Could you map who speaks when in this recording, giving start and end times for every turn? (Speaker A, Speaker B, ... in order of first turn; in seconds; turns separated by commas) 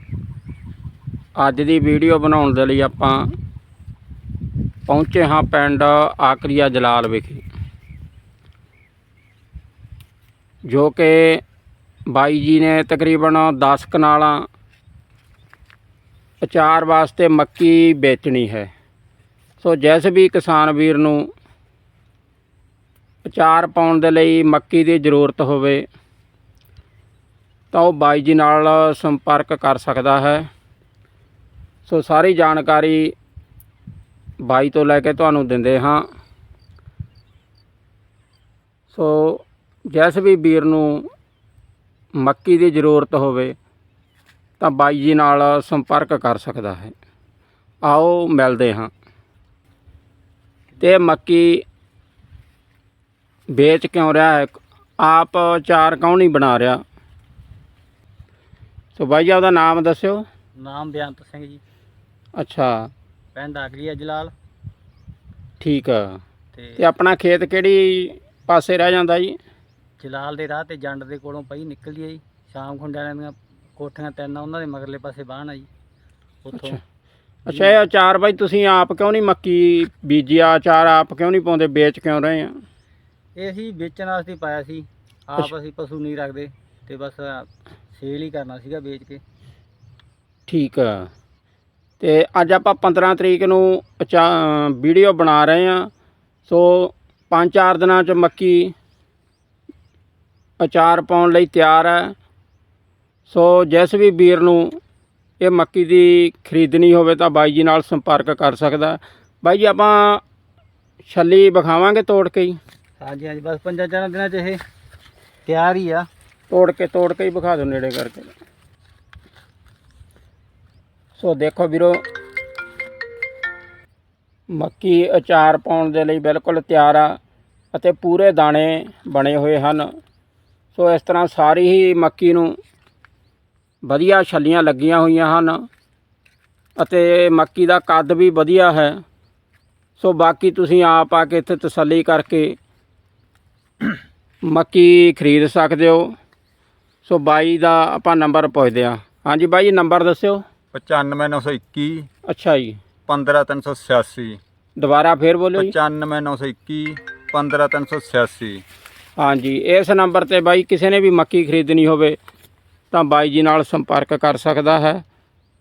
Speaker A: 1.4-3.3, Speaker A: 4.9-7.5, Speaker A: 10.7-11.4, Speaker A: 12.1-14.5, Speaker A: 16.4-18.7, Speaker A: 19.6-21.3, Speaker A: 23.3-25.9, Speaker A: 27.7-30.5, Speaker A: 31.9-33.1, Speaker A: 34.4-36.1, Speaker A: 38.9-41.1, Speaker A: 42.2-43.6, Speaker A: 44.6-46.9, Speaker A: 47.8-48.9, Speaker A: 50.8-51.6, Speaker A: 53.5-56.8, Speaker A: 59.0-60.3, Speaker B: 60.6-61.6, Speaker A: 62.4-62.9, Speaker B: 63.4-64.3, Speaker A: 65.6-66.2, Speaker B: 66.5-66.9, Speaker A: 66.8-69.4, Speaker B: 70.0-75.7, Speaker B: 76.5-76.8, Speaker A: 76.5-76.8, Speaker A: 77.5-82.6, Speaker B: 77.5-77.8, Speaker B: 83.4-89.2, Speaker A: 90.5-91.1, Speaker A: 92.0-95.9, Speaker A: 96.5-98.7, Speaker A: 100.6-102.2, Speaker A: 103.3-104.8, Speaker A: 105.4-110.2, Speaker A: 111.0-112.6, Speaker B: 113.0-114.6, Speaker B: 115.5-116.1, Speaker A: 116.5-118.3, Speaker A: 121.2-122.0, Speaker A: 124.5-127.2, Speaker A: 127.7-129.9, Speaker A: 130.8-132.6, Speaker A: 133.9-135.7, Speaker A: 136.8-139.0, Speaker A: 140.0-142.6, Speaker A: 144.5-146.2, Speaker A: 147.1-150.4, Speaker C: 150.7-152.1, Speaker A: 152.3-152.8, Speaker C: 153.1-154.4, Speaker A: 154.8-155.7, Speaker C: 155.6-158.6, Speaker A: 159.2-162.2, Speaker A: 162.9-165.0